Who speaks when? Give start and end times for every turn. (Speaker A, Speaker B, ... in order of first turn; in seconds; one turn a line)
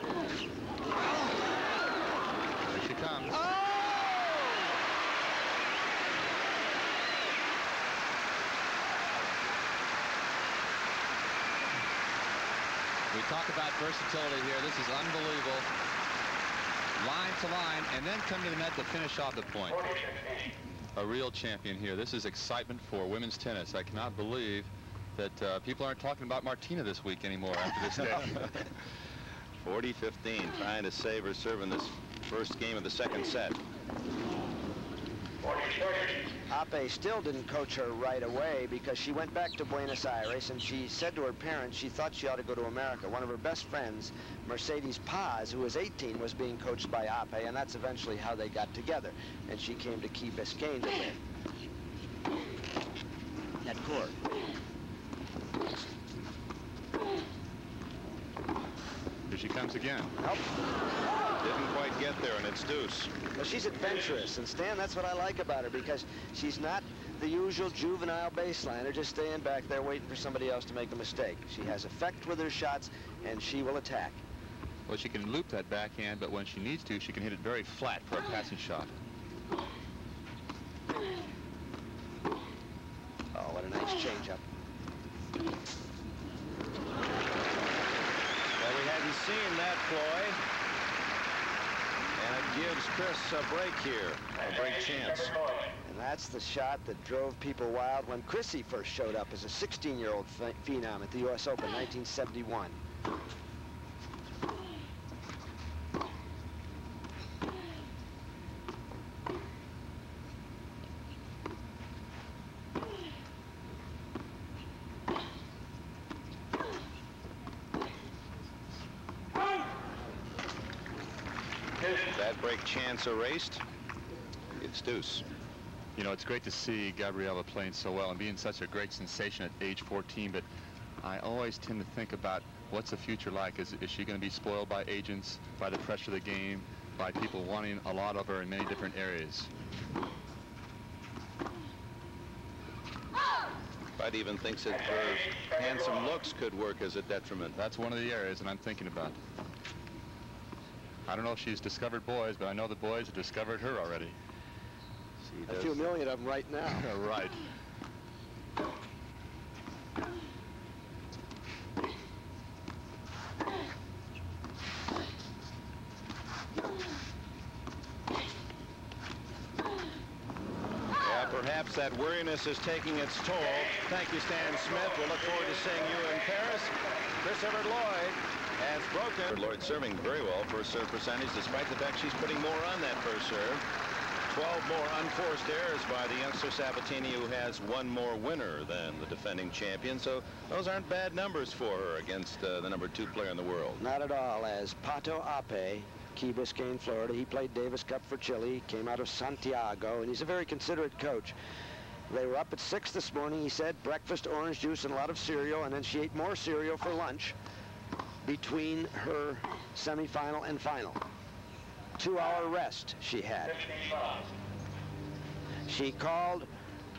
Speaker A: 2.7-3.4
Speaker B: 3.3-4.6
Speaker A: 13.1-15.7
Speaker A: 17.0-20.1
Speaker A: 20.9-28.5
Speaker C: 29.6-33.6
Speaker B: 36.5-51.2
Speaker B: 53.6-54.1
Speaker A: 59.3-60.1
Speaker C: 61.4-63.1
Speaker B: 63.4-74.2
Speaker A: 74.9-78.9
Speaker B: 83.3-84.4
Speaker C: 88.6-90.4
Speaker C: 92.2-95.4
Speaker B: 95.8-102.8
Speaker C: 122.1-123.6
Speaker C: 124.6-125.2
Speaker A: 126.0-130.4
Speaker A: 131.0-139.5
Speaker C: 144.0-147.5
Speaker A: 147.5-149.2
Speaker A: 151.1-154.1
Speaker B: 155.5-156.9
Speaker A: 156.7-157.4
Speaker C: 171.0-183.6
Speaker C: 184.3-193.8
Speaker B: 193.8-201.3
Speaker B: 202.1-207.3
Speaker B: 208.2-211.0
Speaker B: 212.0-213.8
Speaker B: 215.7-216.5